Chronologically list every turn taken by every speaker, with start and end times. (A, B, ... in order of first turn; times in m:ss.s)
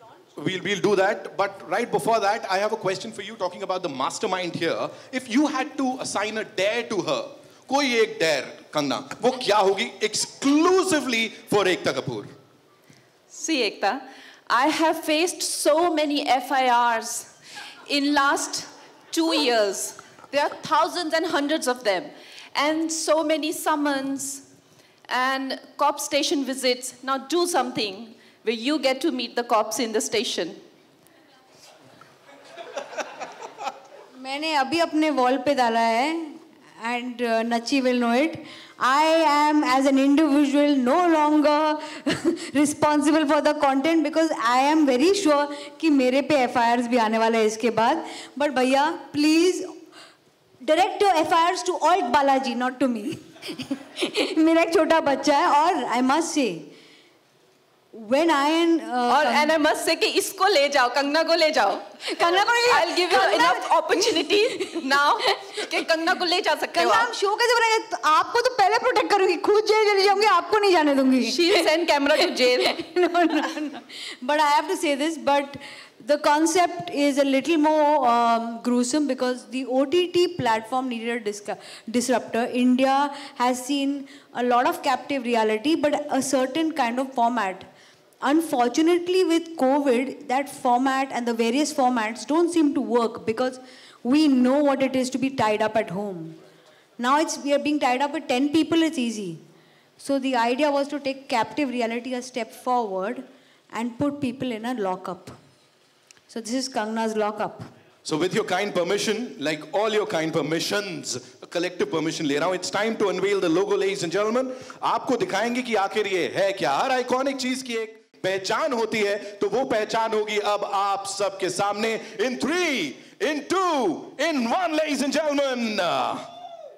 0:00.4-0:12.3 A
0:13.3-0:17.3 B
0:17.9-0:24.4 B
0:25.1-0:30.6 B
0:34.2-0:49.7 C
0:50.6-0:56.7 C
0:57.9-0:59.5 C
0:59.1-1:07.1 B
1:02.1-1:04.8 C
1:06.8-1:11.6 C
1:11.2-1:12.8 B
1:12.7-1:27.7 C
1:28.2-1:36.4 C
1:37.0-1:39.4 C
1:40.0-1:45.4 C
1:46.3-1:47.7 C
1:48.0-2:06.3 A